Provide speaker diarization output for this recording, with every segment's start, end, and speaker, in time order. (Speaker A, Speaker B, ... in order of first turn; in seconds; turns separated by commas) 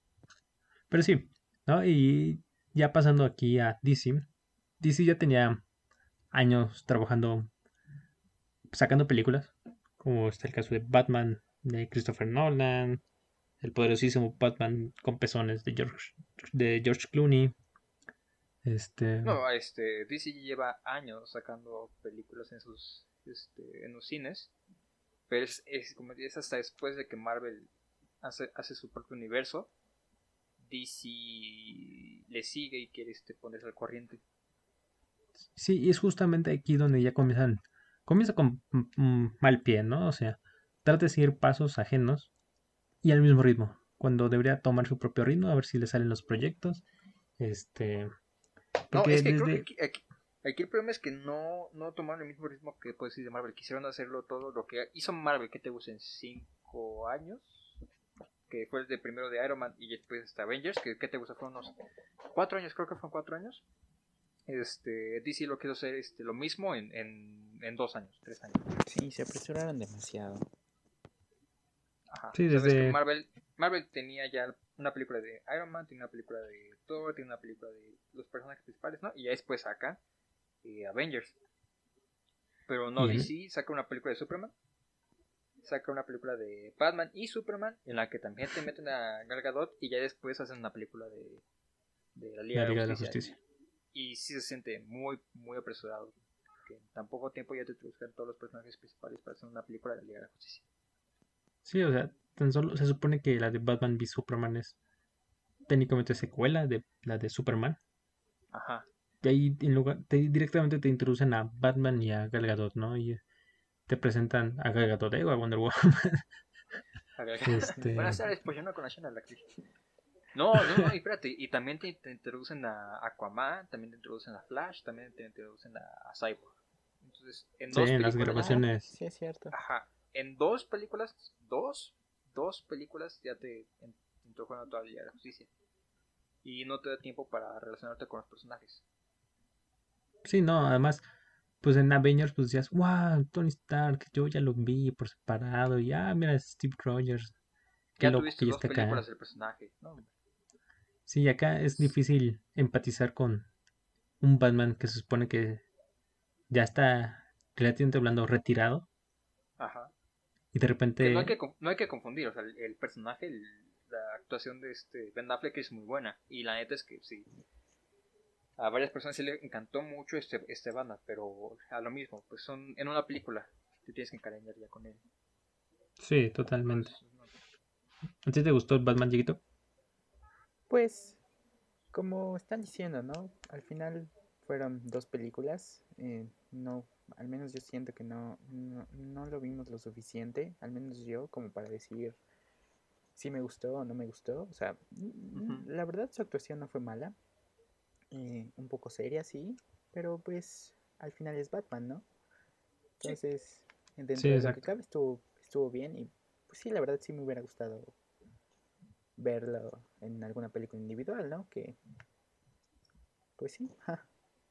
Speaker A: 0.9-4.3, Speaker A: 4.8-5.6, Speaker A: 6.3-7.5, Speaker A: 8.7-13.0, Speaker A: 13.6-17.5, Speaker A: 18.6-19.4, Speaker B: 19.2-24.5, Speaker B: 25.3-29.7, Speaker B: 30.6-34.2, Speaker A: 35.5-42.3, Speaker A: 43.0-46.9, Speaker A: 47.4-48.1, Speaker A: 48.9-49.7, Speaker B: 48.9-57.8, Speaker B: 58.5-61.8, Speaker B: 62.3-63.6, Speaker B: 64.5-68.8, Speaker C: 68.8-70.5, Speaker B: 72.1-80.0, Speaker A: 72.3-73.0, Speaker B: 80.6-81.4, Speaker B: 82.7-84.5, Speaker A: 83.0-83.3, Speaker B: 85.6-91.4, Speaker B: 92.2-93.4, Speaker A: 92.5-93.4, Speaker B: 93.9-100.7, Speaker A: 101.7-104.8, Speaker A: 105.7-107.8, Speaker B: 108.5-108.9, Speaker A: 109.2-113.2, Speaker A: 113.9-116.2, Speaker B: 117.2-119.5, Speaker A: 117.5-118.3, Speaker B: 120.3-128.7, Speaker A: 120.6-120.9, Speaker A: 127.7-128.9, Speaker C: 128.3-129.5, Speaker B: 129.5-135.5, Speaker B: 136.4-138.8, Speaker A: 140.2-141.1, Speaker A: 141.6-147.3, Speaker A: 148.0-149.1, Speaker B: 148.0-150.1, Speaker A: 151.1-153.5, Speaker A: 154.2-155.6, Speaker A: 156.5-158.9, Speaker B: 159.6-159.9, Speaker A: 160.5-161.3, Speaker B: 161.0-167.3, Speaker B: 168.6-175.0, Speaker A: 176.0-176.9, Speaker B: 176.6-177.3, Speaker A: 178.2-179.4, Speaker C: 180.7-181.2, Speaker C: 181.9-192.2, Speaker C: 193.2-197.2, Speaker B: 195.3-195.7, Speaker C: 198.1-202.1, Speaker C: 203.0-208.0, Speaker A: 204.2-204.6, Speaker C: 209.2-211.8, Speaker C: 213.4-214.1